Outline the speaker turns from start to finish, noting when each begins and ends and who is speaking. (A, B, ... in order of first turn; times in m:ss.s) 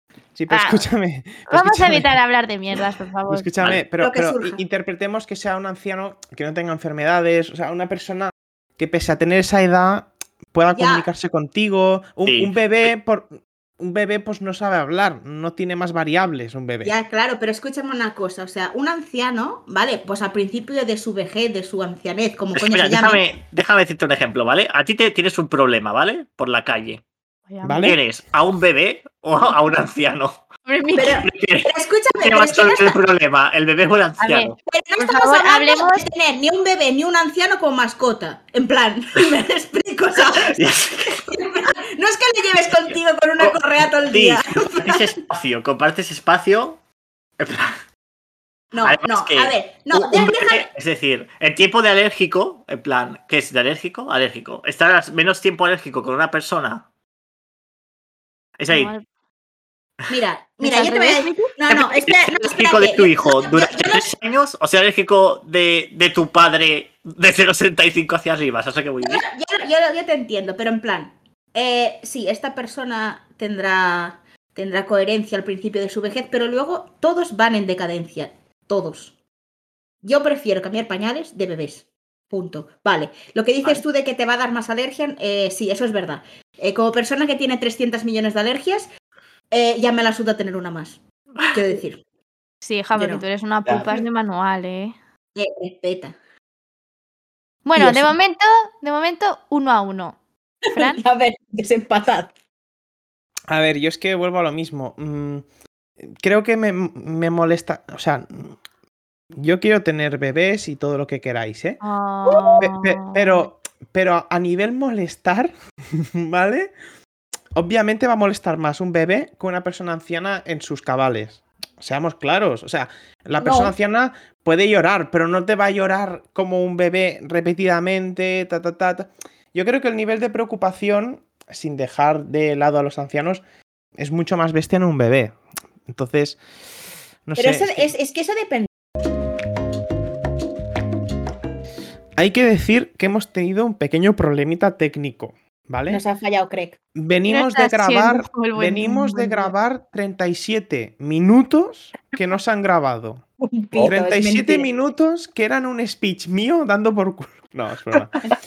0:00.4-0:02.2 A
0:00.5-0:00.9 B
0:01.5-0:03.5 B
0:03.3-0:16.9 A
0:04.0-0:04.6 C
0:10.7-0:11.1 C
0:12.3-0:12.9 D
0:16.8-0:23.2 C
0:22.6-0:27.0 D
0:27.5-0:28.0 B
0:27.6-0:28.0 A
0:27.8-0:30.4 D
0:30.7-0:31.2 B
0:31.0-0:33.0 C
0:31.1-0:34.6 D
0:34.2-0:36.1 B
0:34.7-0:45.2 C
0:40.3-0:41.3 D
0:42.9-0:46.8 D
0:47.4-0:47.8 D
0:48.7-0:50.7 C
0:48.8-0:56.9 D
0:58.6-0:58.9 D
0:58.7-0:59.0 B
1:00.1-1:04.1 C
1:00.6-1:01.5 B
1:01.7-1:09.2 D
1:09.0-1:19.2 C
1:20.0-1:28.9 C
1:29.5-1:31.0 C
1:31.5-1:32.0 C
1:32.6-1:35.0 B
1:33.0-1:33.2 C
1:33.6-1:33.9 D
1:35.4-1:36.2 C
1:37.6-1:40.2 B
1:37.8-1:38.1 C
1:40.7-1:41.0 B
1:40.7-1:42.3 C
1:43.5-1:45.4 A
1:46.0-1:48.6 A
1:49.4-1:51.8 A
1:51.8-1:53.5 B
1:52.6-1:56.7 A
1:57.6-2:13.4 A
2:03.4-2:03.7 C
2:14.0-2:15.4 A
2:15.9-2:16.4 A
2:17.3-2:17.9 A
2:17.4-2:18.7 C
2:22.2-2:26.0 A
2:25.9-2:26.8 C
2:27.0-2:33.2 A
2:27.3-2:29.5 B
2:33.4-2:34.7 C
2:33.8-2:38.2 A